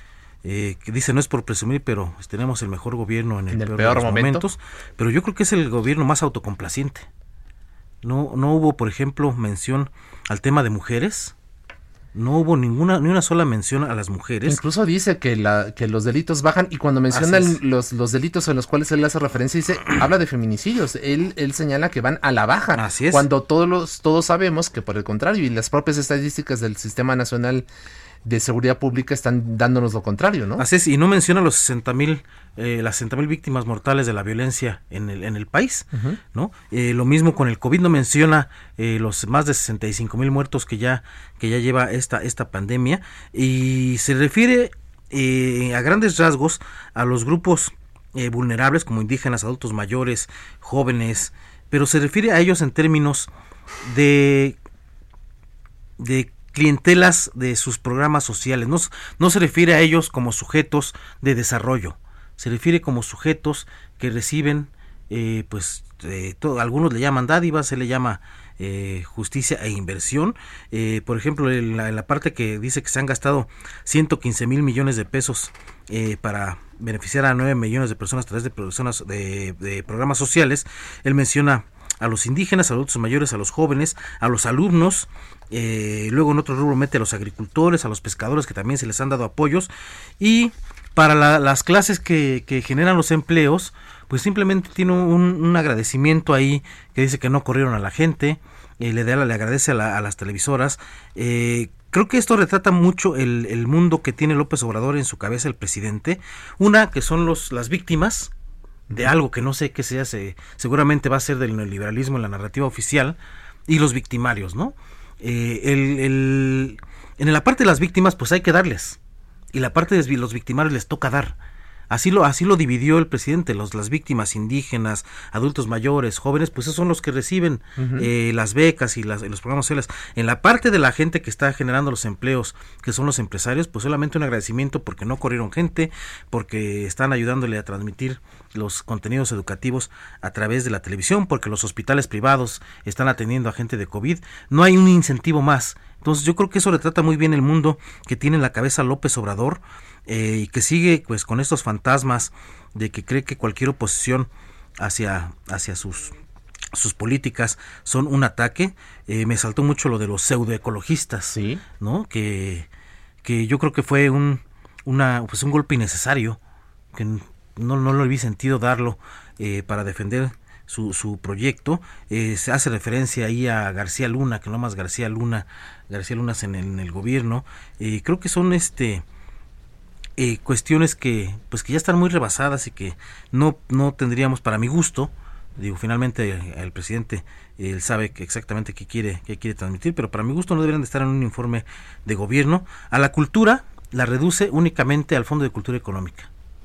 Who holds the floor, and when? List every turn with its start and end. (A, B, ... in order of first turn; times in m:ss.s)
0:00.4-0:07.0 A
0:03.5-0:04.5 B
0:08.0-0:11.3 A
0:12.1-0:14.6 A
0:14.4-0:27.6 B
0:17.1-0:17.6 A
0:22.7-0:23.3 A
0:28.2-0:30.6 B
0:30.6-0:53.3 A
0:53.8-0:54.6 A
0:56.0-1:48.3 A
1:48.9-1:53.2 A
1:53.7-1:59.0 A
1:59.5-2:01.4 A
2:01.9-2:36.2 A
2:07.8-2:08.1 B
2:36.7-2:42.7 A
2:41.3-2:41.6 B
2:43.2-2:46.4 A
2:46.9-2:59.0 A
3:00.2-3:16.3 A